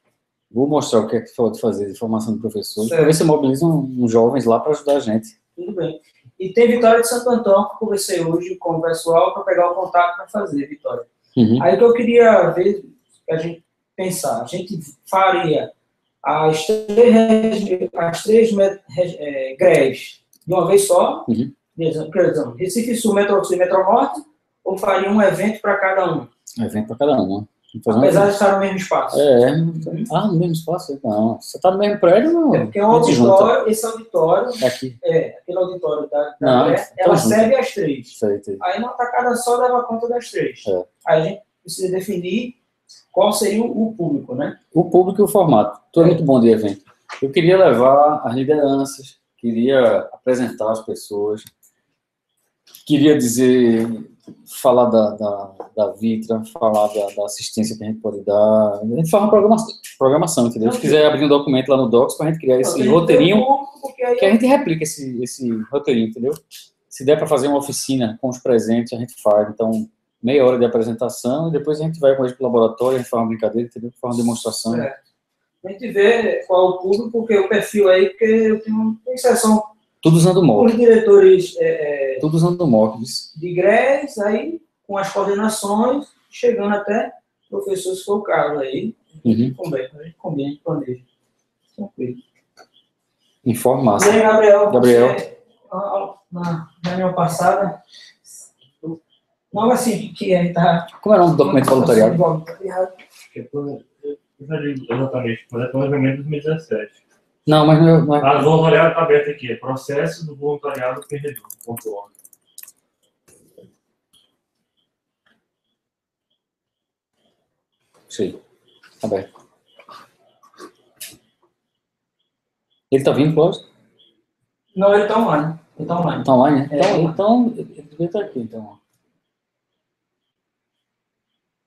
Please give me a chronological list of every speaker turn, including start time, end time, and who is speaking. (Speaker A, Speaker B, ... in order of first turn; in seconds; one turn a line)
Speaker A: 0.5-5.3
Speaker B: 2.8-3.1
Speaker B: 5.6-11.1
Speaker A: 11.3-11.7
Speaker B: 11.6-15.7
Speaker B: 16.2-26.3
Speaker A: 21.3-21.5
Speaker A: 26.6-28.3
Speaker B: 27.9-29.3
Speaker A: 29.1-33.5
Speaker B: 29.8-30.1
Speaker B: 32.5-42.6
Speaker A: 34.6-35.0
Speaker A: 36.4-37.5
Speaker A: 38.1-38.6
Speaker B: 43.1-44.6
Speaker A: 44.7-51.5
Speaker A: 52.9-63.5
Speaker B: 60.6-61.0
Speaker B: 62.6-64.4
Speaker A: 64.2-74.9
Speaker B: 74.7-75.0
Speaker B: 75.6-79.7
Speaker A: 80.0-80.7
Speaker B: 80.6-82.2
Speaker A: 82.2-83.3
Speaker B: 83.3-91.0
Speaker A: 89.2-89.5
Speaker B: 91.8-92.2
Speaker A: 93.4-95.2
Speaker B: 94.0-97.8
Speaker B: 99.5-100.9
Speaker A: 101.0-102.2
Speaker B: 101.4-103.0
Speaker C: 103.3-107.0
Speaker A: 107.5-108.5
Speaker C: 108.2-112.1
Speaker A: 118.1-118.4
Speaker A: 119.0-119.3
Speaker A: 122.9-123.7
Speaker B: 124.8-127.1
Speaker A: 126.2-128.8